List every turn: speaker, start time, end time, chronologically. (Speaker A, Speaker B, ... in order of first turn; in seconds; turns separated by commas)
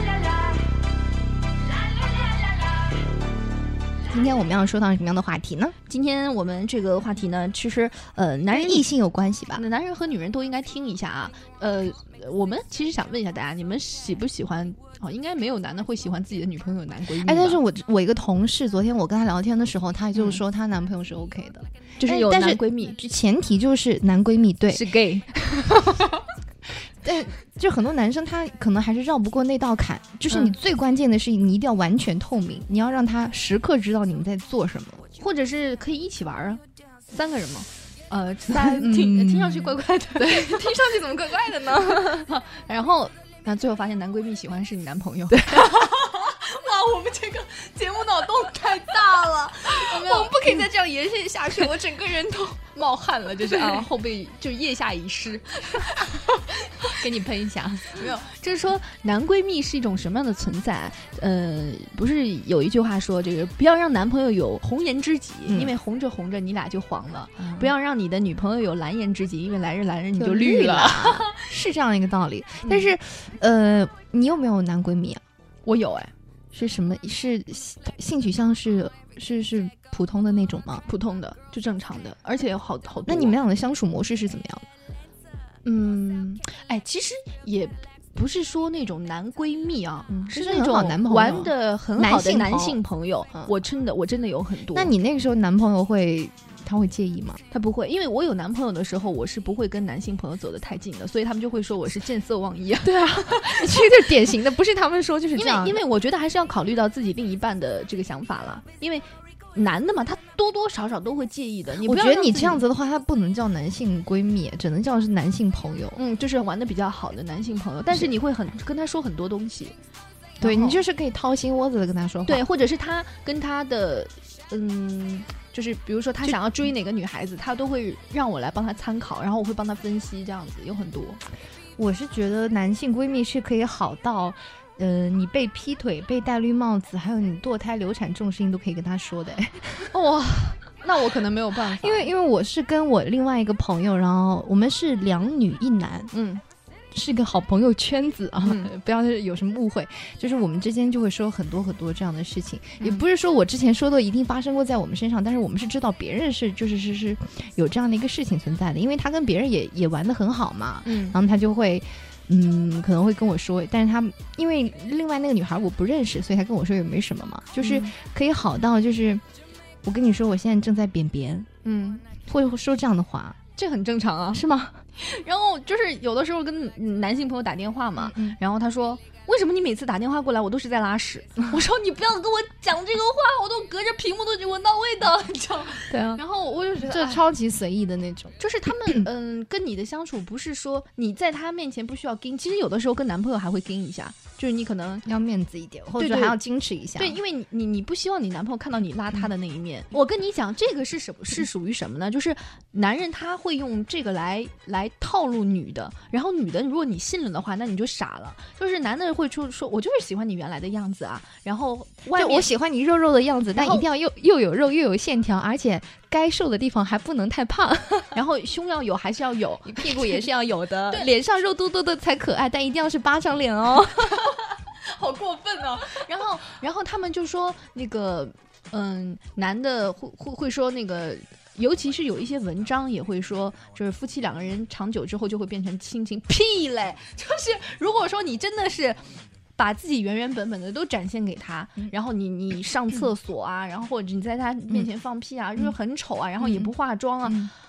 Speaker A: 4.1-5.7, Speaker B: 5.9-8.9, Speaker A: 8.5-9.6, Speaker B: 9.5-17.6, Speaker A: 17.2-24.9, Speaker B: 20.1-20.4, Speaker B: 22.0-23.0, Speaker B: 24.7-26.2, Speaker A: 27.0-35.0, Speaker B: 30.3-30.6, Speaker B: 35.2-40.8, Speaker A: 38.5-42.3, Speaker B: 41.8-50.7, Speaker A: 45.3-45.8, Speaker A: 49.7-52.7, Speaker B: 51.3-51.8, Speaker B: 52.7-56.4, Speaker A: 53.2-53.9, Speaker A: 56.9-58.0, Speaker B: 57.9-71.4, Speaker A: 65.5-65.7, Speaker A: 67.4-67.7, Speaker A: 70.2-75.2, Speaker B: 72.6-72.9, Speaker B: 75.7-76.1, Speaker A: 76.5-80.8, Speaker B: 80.9-83.3, Speaker A: 83.1-84.7, Speaker B: 85.6-94.9, Speaker A: 90.1-92.8, Speaker A: 94.7-97.4, Speaker B: 97.5-104.1, Speaker A: 102.8-105.8, Speaker B: 105.3-112.6, Speaker A: 111.8-116.0, Speaker B: 115.9-119.7, Speaker B: 120.4-120.8, Speaker A: 120.4-122.4, Speaker B: 122.3-131.2, Speaker A: 131.8-139.9, Speaker B: 139.9-142.1, Speaker A: 141.6-146.1, Speaker B: 146.1-146.4, Speaker A: 146.9-169.2, Speaker B: 148.4-148.7, Speaker B: 152.8-153.0, Speaker B: 160.8-161.2, Speaker B: 167.6-167.9, Speaker A: 169.8-171.5, Speaker B: 171.6-172.1, Speaker A: 172.3-173.4, Speaker B: 173.6-174.4, Speaker A: 174.3-174.8, Speaker B: 174.9-187.2, Speaker A: 178.0-178.4, Speaker A: 185.9-186.2, Speaker A: 186.7-188.4, Speaker B: 188.4-195.1, Speaker A: 195.1-197.2, Speaker B: 196.0-196.4, Speaker B: 196.9-212.5, Speaker A: 212.1-218.2, Speaker B: 213.5-213.8, Speaker B: 218.1-220.2, Speaker A: 219.7-224.3, Speaker B: 224.1-247.5, Speaker A: 246.4-246.7, Speaker A: 247.2-247.5